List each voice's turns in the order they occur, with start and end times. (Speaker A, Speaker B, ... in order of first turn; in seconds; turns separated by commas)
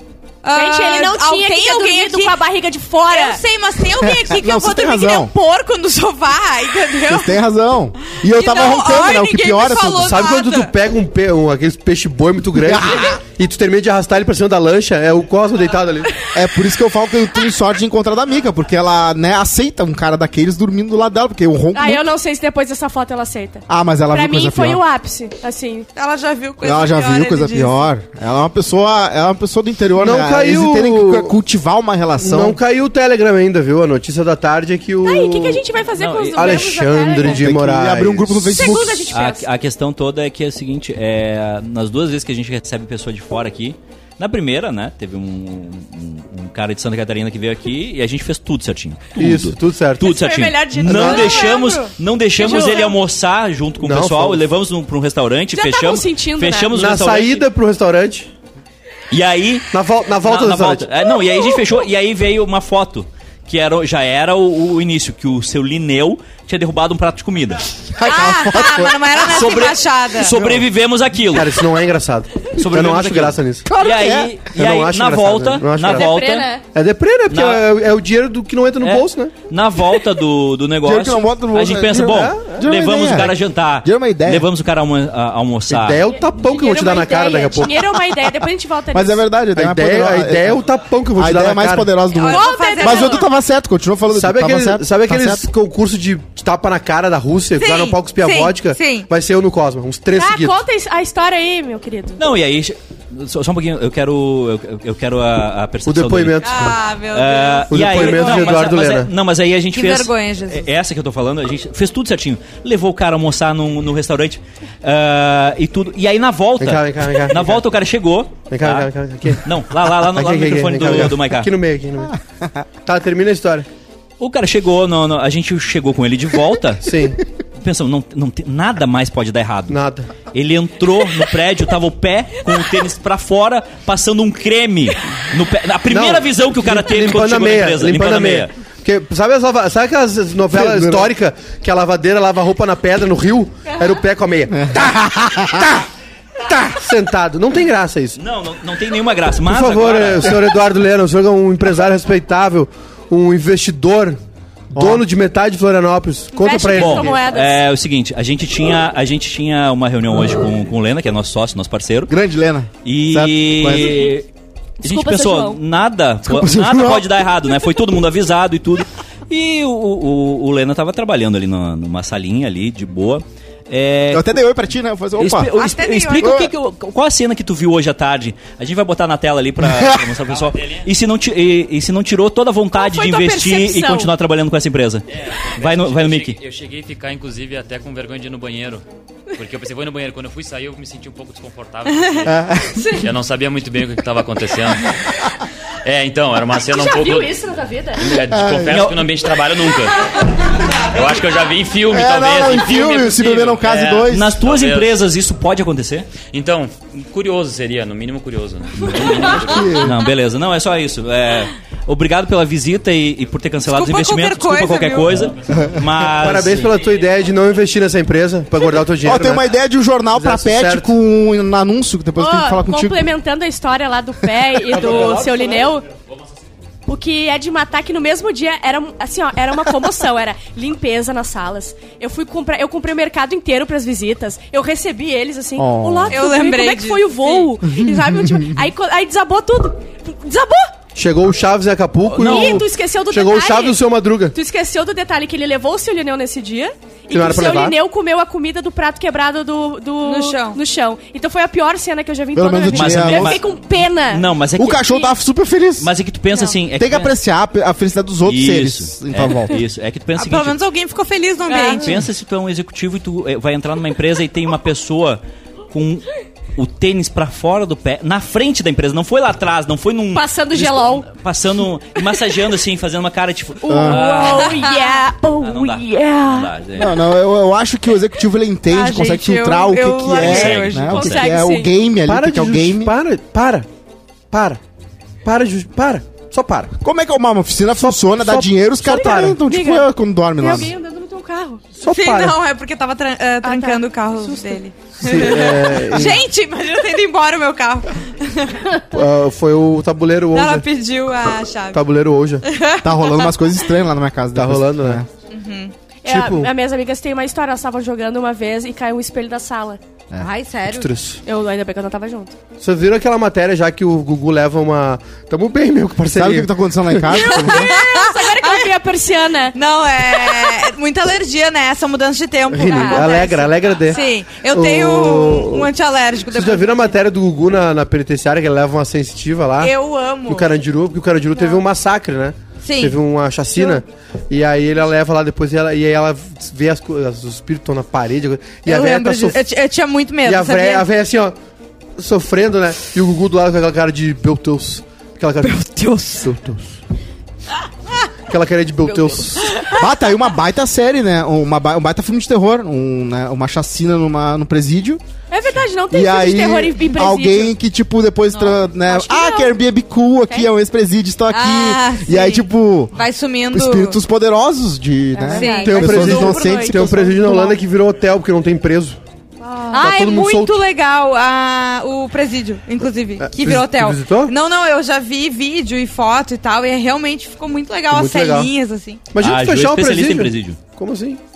Speaker A: 0.4-2.4, Speaker B: 0.5-3.4, Speaker A: 3.1-7.3, Speaker C: 4.0-5.3, Speaker C: 7.1-10.2, Speaker A: 8.1-10.7, Speaker D: 10.0-16.2, Speaker C: 12.6-13.2, Speaker C: 16.3-22.1, Speaker B: 21.7-25.9, Speaker C: 23.7-24.8, Speaker A: 25.9-27.8, Speaker C: 26.6-32.6, Speaker D: 30.0-31.4, Speaker D: 32.2-35.6, Speaker B: 35.0-37.4, Speaker E: 36.0-36.7, Speaker D: 36.3-38.5, Speaker C: 37.2-39.1, Speaker B: 38.5-39.5, Speaker E: 39.1-57.4, Speaker D: 49.2-50.2, Speaker B: 50.0-53.0, Speaker D: 50.8-51.4, Speaker D: 53.8-54.4, Speaker B: 55.5-56.7, Speaker D: 56.7-58.3, Speaker E: 59.1-67.7, Speaker D: 59.7-60.9, Speaker C: 68.0-69.2, Speaker A: 68.0-70.3, Speaker E: 69.2-71.7, Speaker D: 71.3-73.7, Speaker E: 72.5-76.5, Speaker C: 73.7-74.3, Speaker D: 74.5-76.1, Speaker B: 75.9-76.6, Speaker D: 76.6-79.3, Speaker E: 77.3-77.6, Speaker E: 78.8-86.0, Speaker C: 80.8-84.5, Speaker D: 82.1-82.6, Speaker D: 85.7-88.0, Speaker B: 86.2-89.2, Speaker C: 88.9-90.6, Speaker D: 89.5-91.9, Speaker C: 91.1-95.4, Speaker A: 92.1-93.2, Speaker B: 92.2-93.2, Speaker D: 94.1-100.6, Speaker A: 97.5-99.1, Speaker B: 100.1-102.2, Speaker E: 102.2-121.5, Speaker D: 105.8-106.8, Speaker A: 106.4-108.7, Speaker D: 107.7-109.1, Speaker A: 109.7-110.6, Speaker D: 116.6-117.6, Speaker D: 118.5-122.2, Speaker D: 122.8-123.7, Speaker E: 124.2-126.9, Speaker D: 126.8-127.2, Speaker E: 127.6-129.8, Speaker D: 129.7-130.1, Speaker E: 130.3-138.5, Speaker D: 135.9-145.8, Speaker C: 140.5-141.1, Speaker C: 144.5-145.7, Speaker D: 146.4-148.2, Speaker E: 148.2-150.5, Speaker D: 149.4-154.2, Speaker C: 154.7-155.0, Speaker D: 154.7-157.2, Speaker B: 156.3-157.6, Speaker E: 156.7-162.1, Speaker C: 162.1-164.1, Speaker E: 162.8-164.3, Speaker B: 164.8-165.6, Speaker E: 164.8-174.3, Speaker C: 166.2-167.2, Speaker C: 174.1-175.5, Speaker E: 175.2-186.4, Speaker A: 175.5-176.3, Speaker C: 176.2-176.5, Speaker C: 179.6-180.0, Speaker F: 180.4-180.8, Speaker B: 182.7-184.1, Speaker F: 185.1-188.8, Speaker F: 189.3-192.4, Speaker C: 192.2-193.0, Speaker B: 192.7-193.1, Speaker F: 193.0-195.2, Speaker F: 195.8-197.4, Speaker B: 196.7-198.2, Speaker F: 198.0-205.0, Speaker C: 198.3-198.9, Speaker E: 198.7-199.0, Speaker C: 201.9-204.4, Speaker E: 204.1-206.1, Speaker F: 206.3-209.9, Speaker E: 208.8-216.7, Speaker C: 209.4-209.9, Speaker A: 213.7-215.1, Speaker D: 216.1-219.5, Speaker C: 219.0-223.1, Speaker D: 220.1-220.9, Speaker B: 222.2-225.8, Speaker D: 224.7-225.5, Speaker B: 226.9-240.7, Speaker C: 235.6-236.2, Speaker A: 236.1-237.5, Speaker C: 237.6-238.7, Speaker D: 240.9-244.3, Speaker B: 242.1-254.3, Speaker E: 242.2-242.6, Speaker D: 247.1-247.8, Speaker A: 250.0-250.6, Speaker C: 252.3-253.4, Speaker E: 252.7-253.5, Speaker E: 254.1-254.9, Speaker C: 254.6-255.9, Speaker E: 255.8-257.2, Speaker C: 256.7-259.6, Speaker E: 258.2-260.6, Speaker A: 260.1-262.0, Speaker B: 261.5-261.9, Speaker E: 261.7-274.7, Speaker B: 270.1-271.1, Speaker B: 273.6-276.5, Speaker C: 273.7-274.0, Speaker A: 274.2-274.8, Speaker E: 275.4-277.1, Speaker C: 276.8-282.9, Speaker A: 278.7-280.9, Speaker E: 280.1-281.3, Speaker B: 280.9-281.7, Speaker D: 282.0-283.7, Speaker D: 284.3-284.6, Speaker D: 285.2-286.7, Speaker C: 286.8-290.7, Speaker D: 287.8-289.4, Speaker B: 288.8-291.6, Speaker D: 291.8-292.4, Speaker A: 291.9-298.6, Speaker B: 293.4-294.6, Speaker D: 295.0-296.2, Speaker D: 298.9-300.6, Speaker A: 300.3-301.8, Speaker D: 301.7-302.4, Speaker A: 302.4-303.5, Speaker C: 302.8-305.1, Speaker D: 304.3-305.0, Speaker A: 305.3-305.7, Speaker B: 306.0-309.8, Speaker D: 306.1-306.5, Speaker A: 310.1-310.9, Speaker D: 310.6-311.2, Speaker B: 311.2-312.3, Speaker D: 312.6-317.0, Speaker C: 316.1-317.7, Speaker A: 317.1-318.7, Speaker B: 317.1-319.6, Speaker A: 319.5-326.9, Speaker D: 322.5-325.7, Speaker B: 322.7-323.4, Speaker D: 326.3-329.7, Speaker A: 329.6-330.5, Speaker D: 330.2-339.4, Speaker A: 332.6-333.0, Speaker A: 338.6-340.9, Speaker D: 340.2-341.4, Speaker D: 342.0-346.8, Speaker A: 345.4-346.3, Speaker D: 348.3-349.5, Speaker A: 348.9-349.9, Speaker C: 349.8-355.0, Speaker B: 355.3-357.5, Speaker C: 355.9-362.9, Speaker B: 358.7-359.6, Speaker A: 361.3-364.0, Speaker C: 363.5-367.5, Speaker B: 365.1-367.5, Speaker A: 365.3-366.1, Speaker D: 365.6-369.0, Speaker B: 369.4-369.9, Speaker A: 369.7-379.0, Speaker D: 369.8-370.6, Speaker D: 373.2-374.3, Speaker D: 377.9-378.5, Speaker D: 379.1-381.2, Speaker E: 379.2-380.6